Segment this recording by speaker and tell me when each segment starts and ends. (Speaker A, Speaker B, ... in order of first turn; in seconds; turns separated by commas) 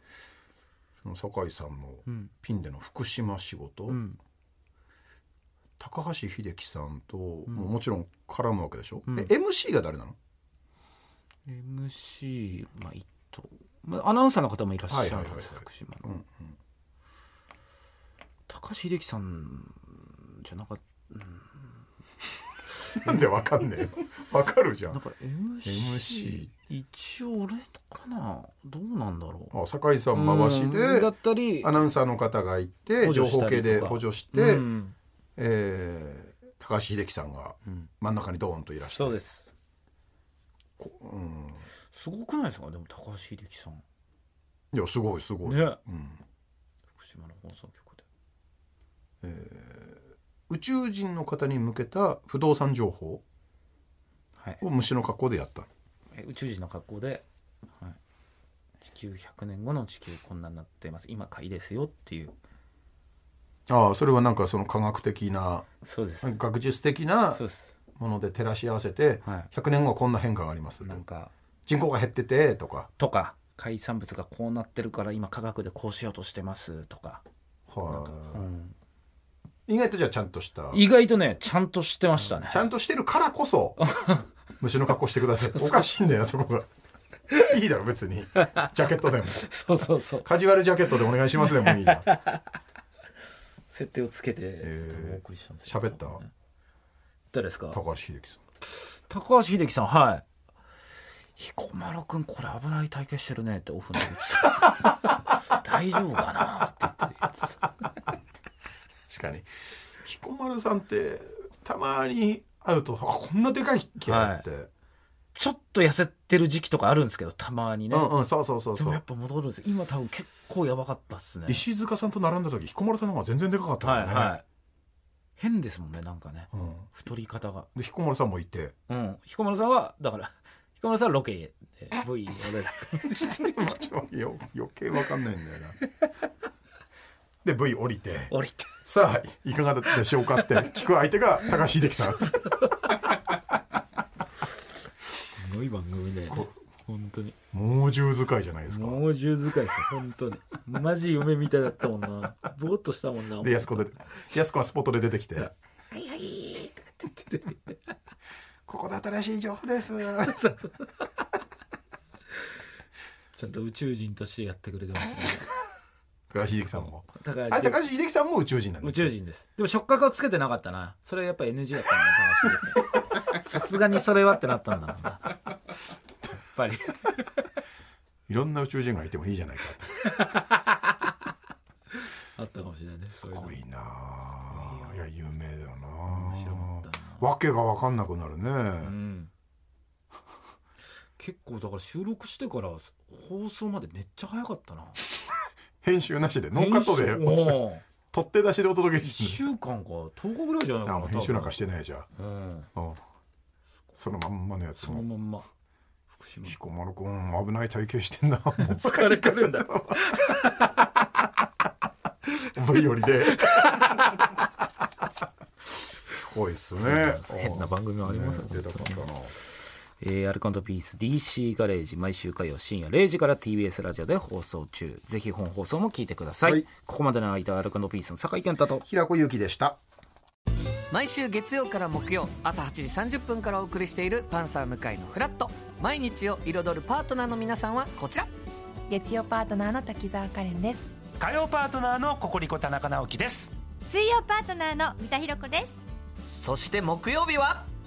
Speaker A: 1.0-4.0, Speaker B: 3.9-4.2, Speaker A: 5.8-10.2, Speaker B: 11.5-16.1, Speaker A: 14.9-16.5, Speaker B: 18.5-21.7, Speaker A: 22.9-25.0, Speaker B: 24.9-29.5, Speaker A: 25.6-26.5, Speaker A: 29.5-31.1, Speaker B: 30.1-31.7, Speaker A: 31.6-34.6, Speaker B: 33.0-34.9, Speaker A: 35.4-39.2, Speaker B: 38.8-39.5, Speaker A: 40.8-41.6, Speaker B: 41.9-43.8, Speaker A: 44.7-46.2, Speaker B: 45.5-45.8, Speaker B: 46.9-48.0, Speaker A: 49.2-53.2, Speaker A: 54.6-55.7, Speaker B: 56.1-57.2, Speaker B: 58.8-62.3, Speaker A: 63.7-65.7, Speaker B: 65.8-66.3, Speaker A: 66.2-67.4, Speaker B: 67.3-67.8, Speaker A: 68.0-71.0, Speaker B: 70.8-71.3, Speaker A: 71.7-72.9, Speaker B: 73.0-77.2, Speaker A: 77.7-78.4, Speaker B: 77.9-78.7, Speaker A: 79.7-80.8, Speaker B: 80.7-82.7, Speaker A: 82.5-83.8, Speaker B: 83.9-84.2, Speaker A: 84.6-86.7, Speaker B: 85.5-85.8, Speaker A: 87.4-89.5, Speaker B: 89.4-90.3, Speaker A: 90.2-92.1, Speaker B: 93.7-96.3, Speaker A: 94.6-96.2, Speaker B: 97.3-97.8, Speaker A: 97.7-98.4, Speaker B: 98.8-100.2, Speaker B: 101.3-107.6, Speaker A: 109.1-109.5, Speaker A: 110.0-114.7, Speaker B: 114.0-114.4, Speaker B: 115.3-118.1, Speaker A: 117.9-119.0, Speaker B: 118.7-121.6, Speaker A: 121.5-124.4, Speaker B: 123.8-124.4, Speaker B: 125.4-127.7, Speaker A: 126.5-126.9, Speaker A: 127.7-128.7, Speaker B: 128.9-133.6, Speaker A: 133.1-135.8, Speaker A: 137.4-138.3, Speaker B: 138.3-138.8, Speaker A: 138.8-142.3, Speaker B: 142.2-143.0, Speaker B: 145.3-147.3, Speaker A: 146.0-146.5, Speaker A: 147.5-149.0, Speaker B: 148.7-154.2, Speaker A: 153.4-155.5, Speaker B: 155.9-157.7, Speaker A: 158.7-160.4, Speaker B: 160.2-161.0, Speaker B: 163.3-165.5, Speaker A: 166.3-169.1, Speaker B: 167.1-167.8, Speaker B: 168.8-175.3, Speaker B: 176.3-177.1, Speaker A: 178.3-179.9, Speaker B: 180.2-180.5, Speaker B: 182.3-183.6, Speaker A: 183.2-188.9, Speaker B: 184.2-185.0, Speaker B: 186.1-187.2, Speaker B: 188.8-189.3, Speaker B: 191.2-195.0, Speaker A: 195.8-199.4, Speaker B: 196.5-197.8, Speaker B: 199.0-201.6, Speaker A: 200.8-202.1, Speaker B: 202.2-202.7, Speaker A: 202.7-203.0, Speaker A: 203.9-205.0, Speaker B: 204.8-205.4, Speaker B: 206.1-206.6, Speaker A: 206.4-210.1, Speaker B: 208.6-210.8, Speaker A: 212.3-213.8, Speaker A: 216.1-219.4, Speaker B: 216.7-219.1, Speaker B: 220.0-228.8, Speaker A: 228.8-229.8, Speaker C: 230.9-238.3, Speaker D: 238.9-240.9, Speaker E: 241.2-243.5, Speaker F: 243.8-245.8, Speaker C: 246.3-247.7